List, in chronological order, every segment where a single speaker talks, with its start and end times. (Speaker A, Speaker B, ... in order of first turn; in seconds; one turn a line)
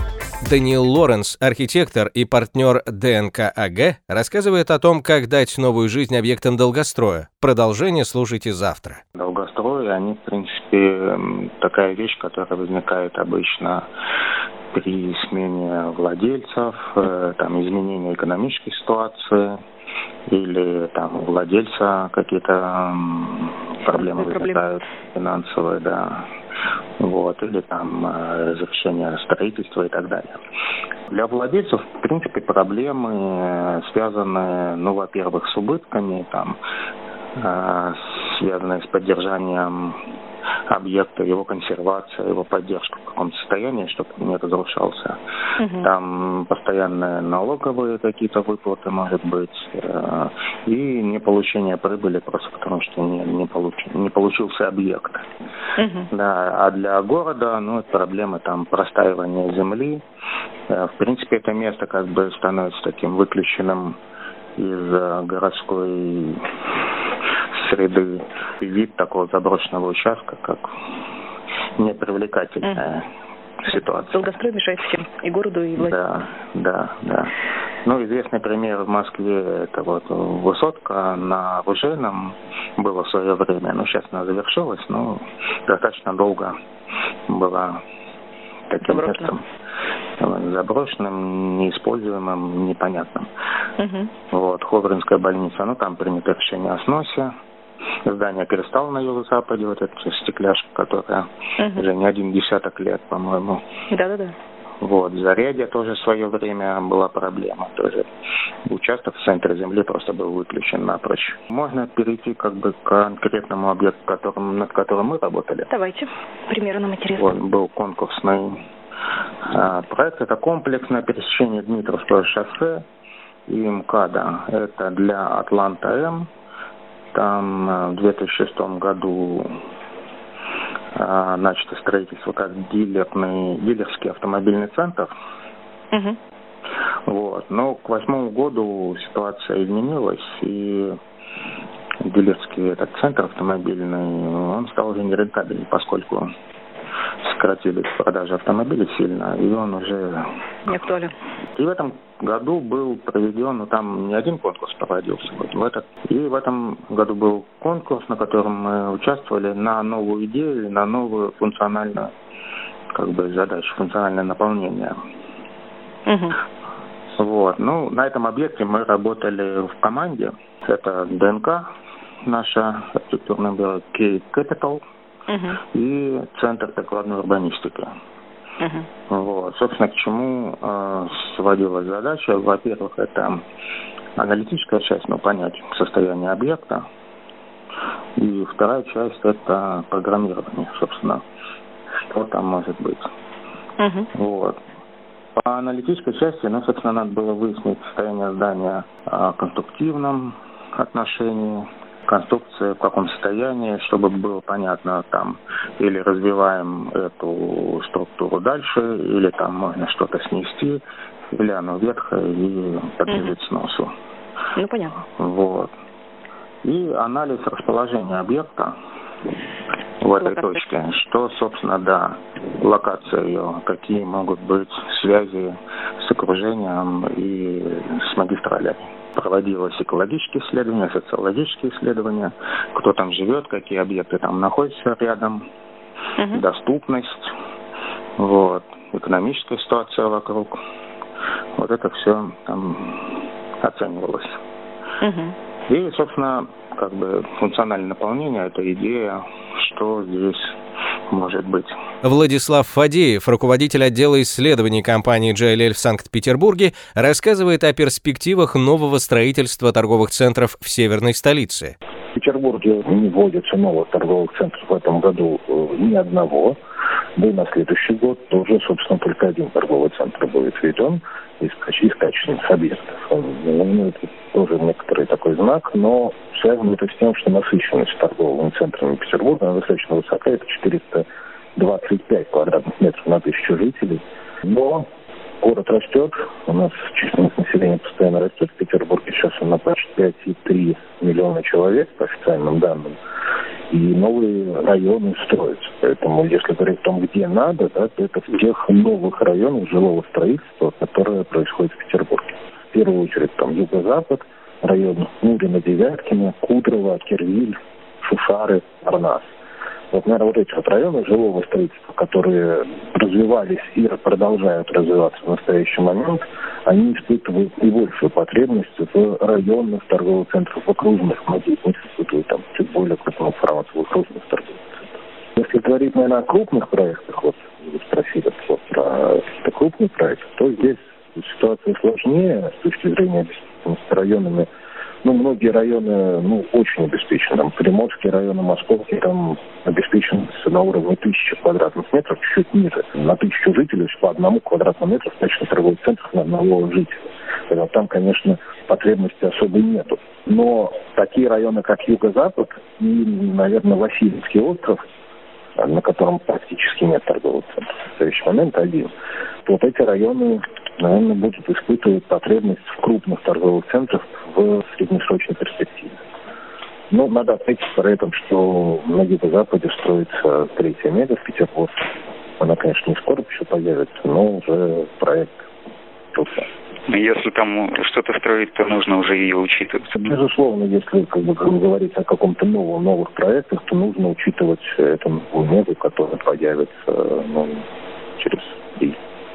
Speaker A: 0.4-9.0
Speaker B: 9.2-13.9
Speaker B: 14.7-19.6
Speaker B: 20.3-26.2
Speaker C: 24.0-24.6
Speaker B: 27.0-30.4
Speaker B: 31.1-36.6
Speaker B: 37.4-40.0
Speaker B: 40.7-45.2
Speaker B: 45.7-55.2
Speaker B: 56.1-60.0
Speaker B: 60.7-64.0
Speaker B: 64.6-66.4
Speaker B: 67.6-70.6
Speaker B: 71.8-73.0
Speaker B: 73.6-74.4
Speaker C: 74.1-75.9
Speaker B: 75.8-77.3
Speaker B: 77.8-86.5
Speaker B: 87.3-87.8
Speaker B: 88.7-89.4
Speaker C: 88.8-89.3
Speaker B: 90.2-93.3
Speaker C: 93.8-94.1
Speaker B: 94.3-97.3
Speaker B: 98.0-103.6
Speaker C: 104.0-104.3
Speaker B: 104.8-108.1
Speaker B: 108.7-115.7
Speaker C: 115.7-117.3
Speaker B: 117.1-118.6
Speaker B: 119.5-122.8
Speaker B: 123.5-126.3
Speaker B: 127.1-129.5
Speaker B: 131.0-135.1
Speaker B: 137.1-140.9
Speaker B: 142.1-146.3
Speaker B: 147.2-150.2
Speaker C: 150.7-151.1
Speaker B: 151.6-162.1
Speaker B: 162.9-164.9
Speaker B: 167.2-171.7
Speaker B: 172.3-174.8
Speaker B: 175.6-177.9
Speaker B: 179.1-183.4
Speaker B: 184.2-186.8
Speaker B: 188.2-191.2
Speaker B: 192.1-193.1
Speaker B: 194.1-194.6
Speaker B: 195.4-210.8
Speaker B: 211.3-213.9
Speaker C: 214.6-214.9
Speaker B: 215.1-215.7
Speaker B: 216.6-218.7
Speaker B: 220.0-235.4
Speaker C: 220.2-220.6
Speaker B: 236.3-237.3
Speaker B: 238.2-240.6
Speaker B: 241.6-244.3
Speaker B: 245.7-250.5
Speaker B: 251.1-251.7
Speaker A: 252.0-261.7
Speaker D: 262.1-266.6
Speaker D: 267.2-284.9
Speaker D: 285.4-293.0
Speaker D: 293.7-309.3
Speaker D: 309.9-334.5
Speaker D: 335.0-354.8
Speaker D: 355.6-358.9
Speaker D: 359.4-366.0
Speaker D: 366.9-371.8
Speaker D: 372.4-375.5
Speaker D: 376.1-376.5
Speaker E: 376.9-379.8
Speaker D: 379.9-387.6
Speaker D: 388.2-389.0